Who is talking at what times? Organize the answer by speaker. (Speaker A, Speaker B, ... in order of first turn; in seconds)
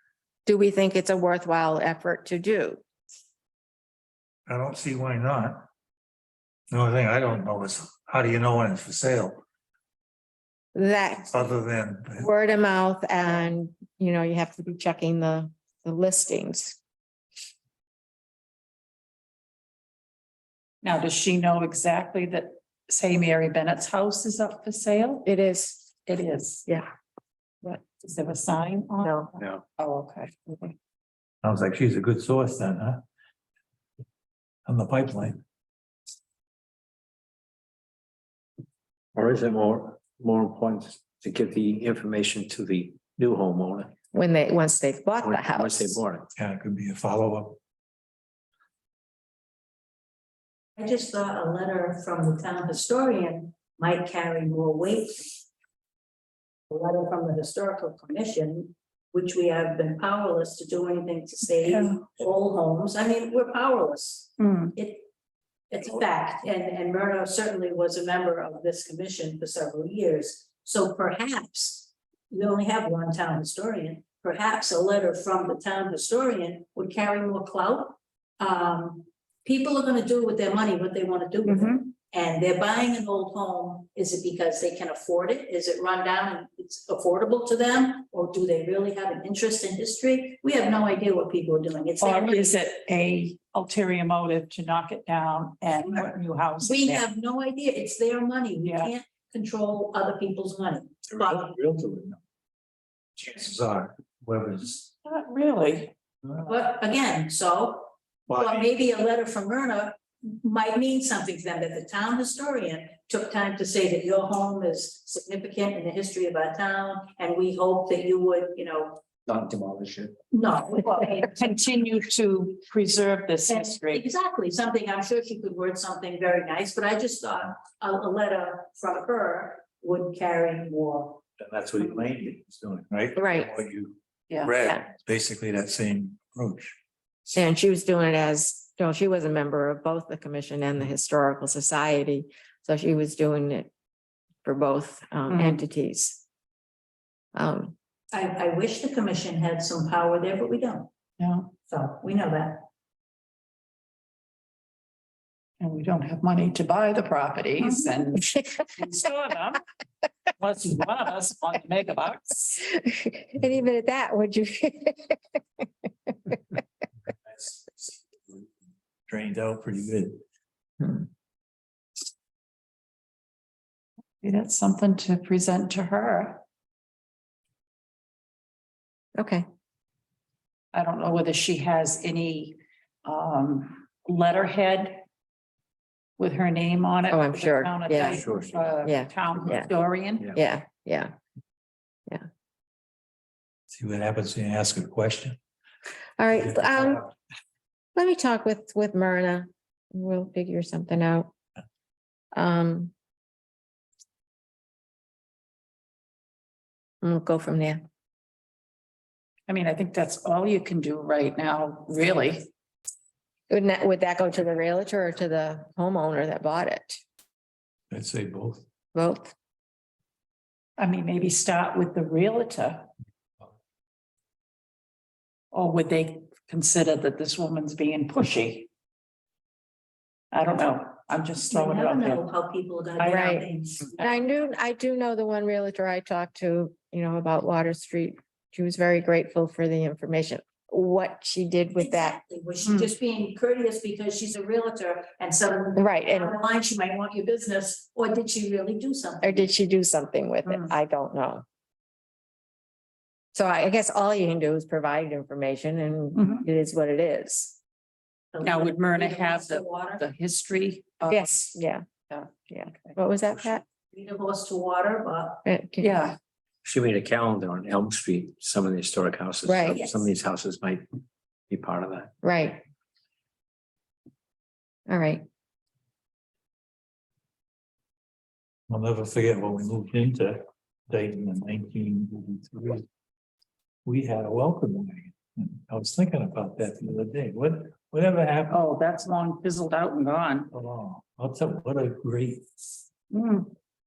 Speaker A: 0.5-2.8, 10.7-11.5, 12.2-16.8, 25.2-25.9, 29.0-29.3, 44.1-46.0, 133.2-133.5, 137.3-143.7, 144.4-146.2, 147.3-147.7, 162.7-165.2, 166.1-166.3, 179.2-179.4, 187.1-188.2, 188.8-189.7, 190.3-191.1, 196.2-197.1, 197.9-201.3, 202.3-202.9, 207.0-207.8, 213.5-217.0, 218.9-219.3, 233.0-233.5, 234.0-242.2, 245.8-246.3, 249.2-251.4, 253.3-257.6, 261.1-261.9, 262.5-263.6, 265.5-266.0, 269.4-269.9, 272.2-272.6, 274.9-275.2
Speaker B: 4.5-5.6, 6.7-9.4, 11.3-12.3, 31.4-33.0, 34.7-35.4, 46.4-47.6, 101.1-102.2, 103.2-104.9, 106.3-106.5, 108.3-108.7, 131.4-136.8, 169.1-170.2, 193.7-195.4, 196.5-197.0, 217.9-218.6, 278.7-282.9, 283.9-288.6, 290.5-292.5
Speaker C: 20.8-25.2, 26.1-26.7, 27.6-30.7, 61.6-62.0, 64.4-64.8, 81.5-81.8, 92.0-97.1, 98.6-98.9, 105.0-105.9, 120.8-124.0, 145.3-145.6, 151.2-151.6, 155.6-159.6, 160.4-162.6, 174.2-176.4, 180.7-185.0, 186.2-190.3, 209.5-212.5, 220.8-222.9, 225.5-228.7, 230.3-232.3, 233.0-233.3, 242.6-242.9, 250.4-250.7, 256.1-256.5, 258.4-261.4, 262.1-262.9, 265.8-266.2, 288.5-290.5, 293.1-293.6
Speaker D: 39.1-43.9, 45.2-46.3, 119.3-120.1, 188.0-188.7, 266.6-270.9, 271.5-272.1
Speaker E: 50.8-55.4, 56.7-65.1, 65.7-92.6, 96.6-101.5, 106.5-119.0, 120.3-121.4, 123.5-131.2, 148.1-150.9, 151.6-152.6, 231.5-234.1, 241.8-249.5, 258.3-260.0, 263.9-265.4, 269.8-270.1